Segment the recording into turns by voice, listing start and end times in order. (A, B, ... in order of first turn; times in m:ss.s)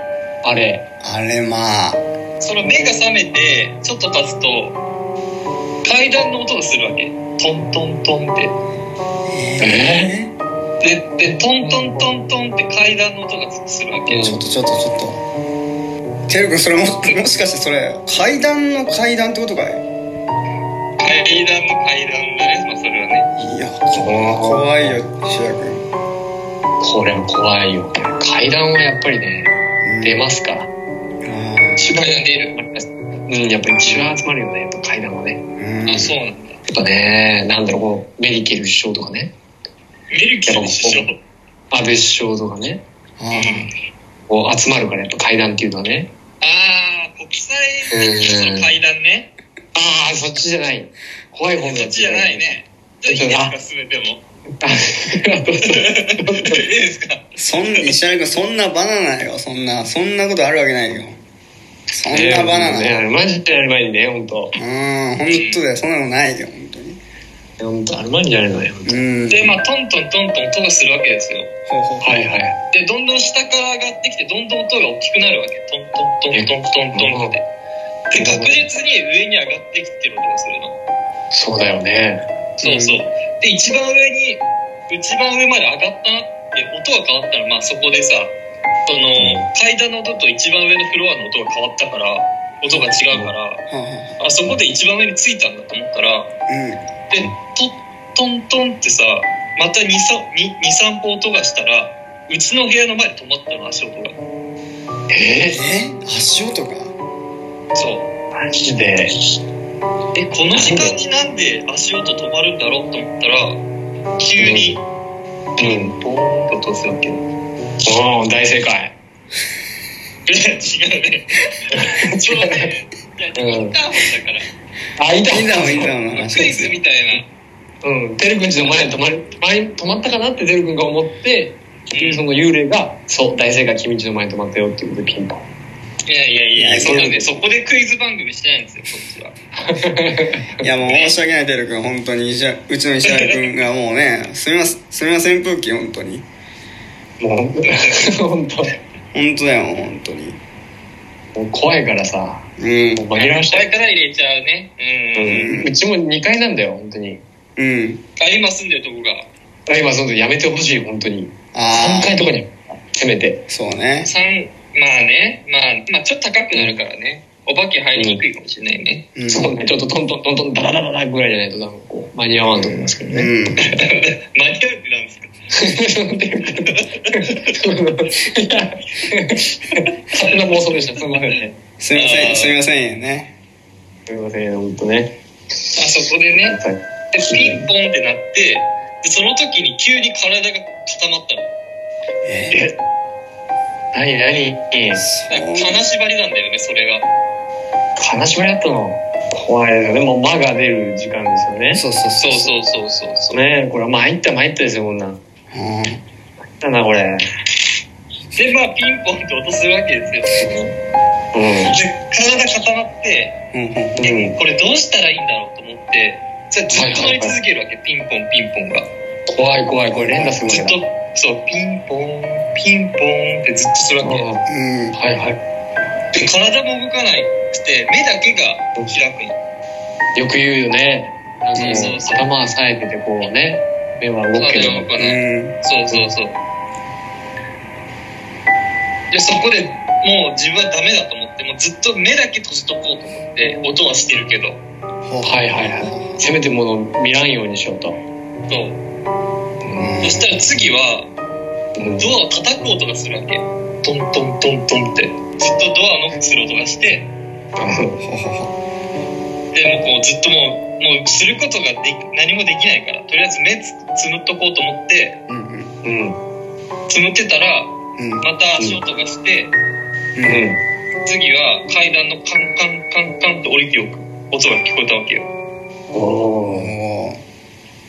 0:00.4-0:00.8 A
0:01.0-0:02.0 B
0:02.4-0:04.8 C
0:05.8-0:08.6 C
0:09.3-0:10.4 B
0:09.6-0:10.1 A
0:10.8-0:14.3 C
0:11.6-0:12.1 A
0:14.1-0:14.4 A
0:14.2-0:15.2 B
0:16.3-0:19.8 B
0:21.0-0:23.3 C
0:23.4-0:25.9 B
0:24.0-0:25.0 A
0:26.8-0:30.7 A
0:29.8-0:30.3 B
0:31.2-0:32.0 B
0:31.8-0:35.4 A
0:32.0-0:32.6 C
0:33.8-0:34.2 B
0:35.6-0:36.2 B
0:35.9-0:36.6 C
0:36.7-0:39.3 A
0:40.1-0:41.2 C
0:40.4-0:41.1 A
0:41.7-0:42.8 A
0:43.2-0:43.7 B
0:43.3-0:43.7 C
0:44.3-0:46.1 A
0:46.4-0:49.3 C
0:47.9-0:48.7 A
0:49.8-0:53.6 A
0:51.6-0:54.2 C
0:54.6-0:56.6 A
0:55.7-0:57.9 C
0:57.4-1:01.2 B
1:01.9-1:03.0 B
1:02.1-1:04.5 A
1:04.6-1:07.0 B
1:05.3-1:05.6 C
1:07.6-1:09.0 A
1:08.8-1:09.6 B
1:09.3-1:11.5 C
1:11.7-1:12.1 B
1:12.0-1:12.6 A
1:12.7-1:17.5 C
1:16.3-1:17.4 A
1:18.1-1:20.8 C
1:18.2-1:18.6 A
1:21.3-1:23.0 A
1:22.6-1:28.4 C
1:28.9-1:33.6 C
1:29.2-1:29.4 A
1:33.7-1:34.2 B
1:34.2-1:36.3 C
1:36.5-1:36.9 B
1:37.1-1:44.2 C
1:45.1-1:45.6 A
1:45.5-1:47.0 B
1:47.8-1:48.1 C
1:48.4-1:49.1 A
1:50.2-1:53.6 C
1:50.5-1:51.0 A
1:54.2-1:54.8 C
1:54.4-1:54.8 A
1:55.6-1:57.2 C
1:55.6-1:55.9 A
1:57.8-1:59.0 A
2:00.3-2:04.5 C
2:01.7-2:02.6 A
2:03.4-2:03.8 A
2:05.0-2:06.0 A
2:05.3-2:06.8 B
2:06.1-2:07.3 C
2:07.8-2:15.5 A
2:11.9-2:12.2 C
2:16.1-2:19.3 C
2:16.6-2:17.2 B
2:16.8-2:17.5 A
2:19.6-2:20.7 A
2:20.6-2:26.3 B
2:20.8-2:21.2 C
2:23.1-2:23.4 C
2:27.2-2:28.7 A
2:27.6-2:28.2 C
2:29.1-2:30.4 B
2:31.4-2:33.7 A
2:32.6-2:33.1 B
2:33.2-2:35.4 C
2:35.2-2:37.2 A
2:35.3-2:35.7 B
2:37.6-2:38.0 B
2:38.2-2:39.3 C
2:39.7-2:43.4 A
2:41.5-2:42.2 B
2:43.5-2:44.1 B
2:44.0-2:49.1 C
2:46.5-2:46.8 A
2:48.0-2:48.2 A
2:49.2-2:49.5 B
2:49.3-2:53.4 A
2:53.0-2:53.7 B
2:53.7-2:55.3 C
2:55.5-3:01.6 A
2:56.6-2:57.6 C
3:00.2-3:01.0 C
3:01.8-3:03.3 B
3:02.0-3:02.6 C
3:04.1-3:05.2 A
3:05.7-3:06.6 C
3:06.3-3:07.7 A
3:07.1-3:11.5 C
3:12.2-3:12.6 B
3:12.5-3:12.8 A
3:13.9-3:15.0 A
3:14.9-3:15.8 B
3:15.3-3:17.1 C
3:18.0-3:21.8 A
3:21.7-3:22.5 B
3:22.2-3:23.4 C
3:23.3-3:25.2 A
3:25.5-3:26.0 B
3:26.6-3:27.2 A
3:28.3-3:30.5 C
3:30.4-3:30.7 A
3:31.3-3:31.8 A
3:31.6-3:33.3 C
3:33.5-3:34.1 B
3:34.0-3:34.4 A
3:34.0-3:38.9 C
3:36.7-3:37.4 A
3:39.3-3:40.8 A
3:39.9-3:40.4 B
3:40.4-3:44.3 C
3:44.0-3:44.4 A
3:44.5-3:45.0 B
3:45.0-3:45.4 A
3:46.1-3:49.4 C
3:50.2-3:54.9 A
3:51.6-3:52.0 B
3:51.6-3:52.3 C
3:54.3-3:56.4 C
3:55.0-3:55.6 B
3:59.1-4:04.6 C
4:05.0-4:06.2 B
4:05.2-4:08.0 A
4:08.5-4:08.8 C
4:09.6-4:10.0 A
4:09.8-4:10.4 B
4:10.0-4:11.1 C
4:11.8-4:12.2 A
4:12.0-4:17.1 C
4:17.6-4:18.0 A
4:18.0-4:18.5 B
4:19.5-4:25.2 C
4:25.3-4:25.7 B
4:25.8-4:26.2 A
4:26.9-4:29.5 C
4:28.0-4:28.3 B
4:30.2-4:30.4 B
4:30.3-4:30.6 A
4:31.0-4:35.3 C
4:35.9-4:36.7 A
4:36.5-4:37.2 B